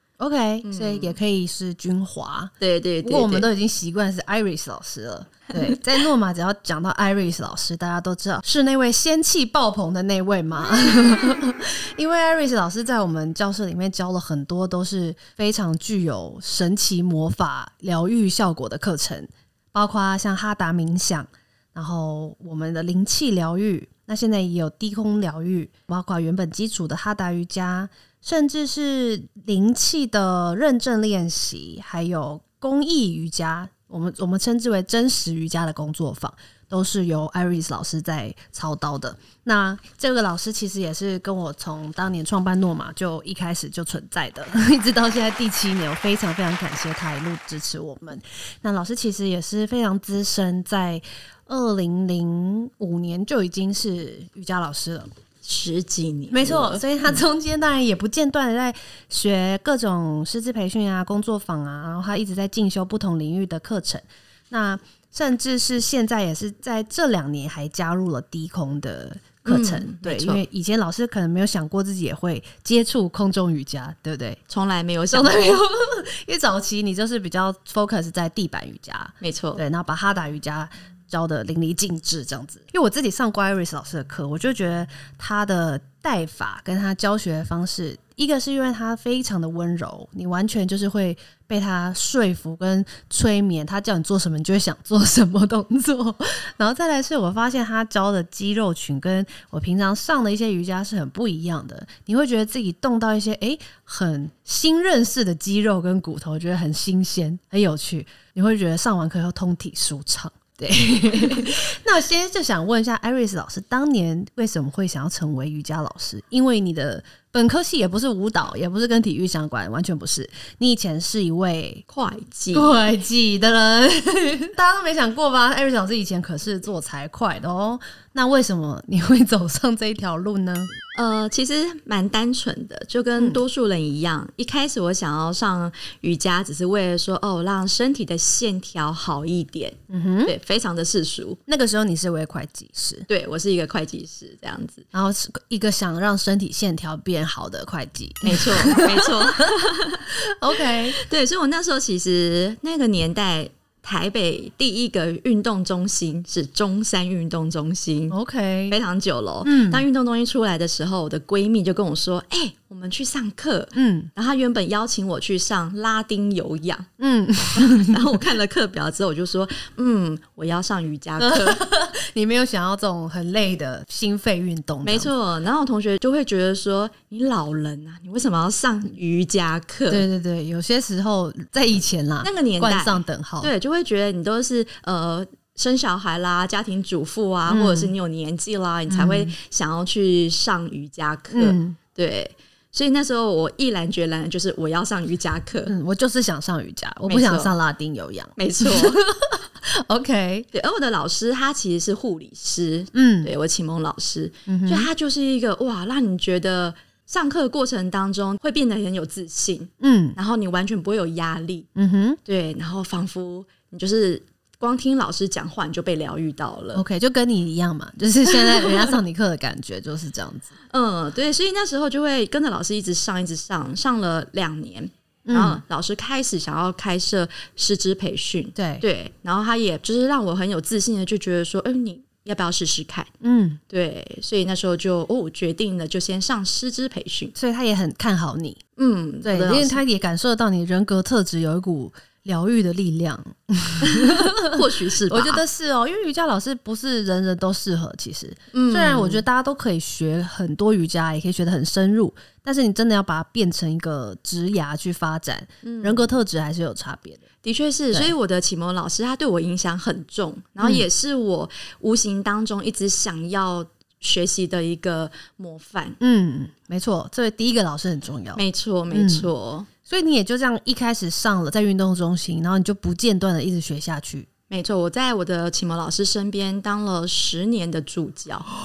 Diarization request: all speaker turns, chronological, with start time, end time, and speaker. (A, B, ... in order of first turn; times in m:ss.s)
0:00.2-0:55.1 A
0:00.6-0:01.2 B
0:02.6-0:03.5 B
0:55.4-0:57.2 B
0:56.3-1:14.4 A
1:09.5-1:10.4 B
1:14.5-1:15.6 B
1:15.1-2:01.8 A
1:19.2-1:19.6 B
2:01.9-2:02.8 B
2:02.5-2:10.7 A
2:11.0-2:21.4 B
2:19.9-2:20.3 A
2:21.5-2:23.0 A
2:23.1-2:24.8 B
2:24.9-2:29.6 A
2:28.2-2:38.2 B
2:30.1-2:31.0 A
2:38.1-2:38.8 A
2:38.7-2:46.9 B
2:39.4-2:39.8 A
2:43.7-2:44.1 A
2:47.0-2:48.2 A
2:47.5-2:51.6 B
2:51.2-2:55.1 A
2:54.8-3:00.0 B
2:59.9-3:03.5 A
3:02.2-3:15.7 B
3:07.5-3:07.9 A
3:08.9-3:09.3 A
3:11.3-3:11.8 A
3:15.6-3:20.5 A
3:17.1-3:17.5 B
3:18.4-3:19.0 B
3:20.5-3:31.7 B
3:22.9-3:23.3 A
3:24.5-3:24.9 A
3:29.8-3:30.2 A
3:31.8-3:32.2 A
3:32.2-3:36.8 B
3:36.7-3:40.5 A
3:38.2-3:38.9 B
3:40.7-3:53.1 B
3:45.2-3:45.6 A
3:48.6-3:48.8 A
3:53.2-3:53.6 A
3:53.7-3:57.3 B
3:57.4-3:58.6 A
3:58.8-3:59.8 B
3:59.2-4:17.2 A
4:03.8-4:05.4 B
4:08.5-4:09.2 B
4:15.6-4:16.0 B
4:17.4-4:26.0 B
4:20.6-4:20.8 A
4:26.0-4:29.3 A
4:28.4-4:29.7 B
4:29.8-4:34.3 A
4:34.5-4:38.5 B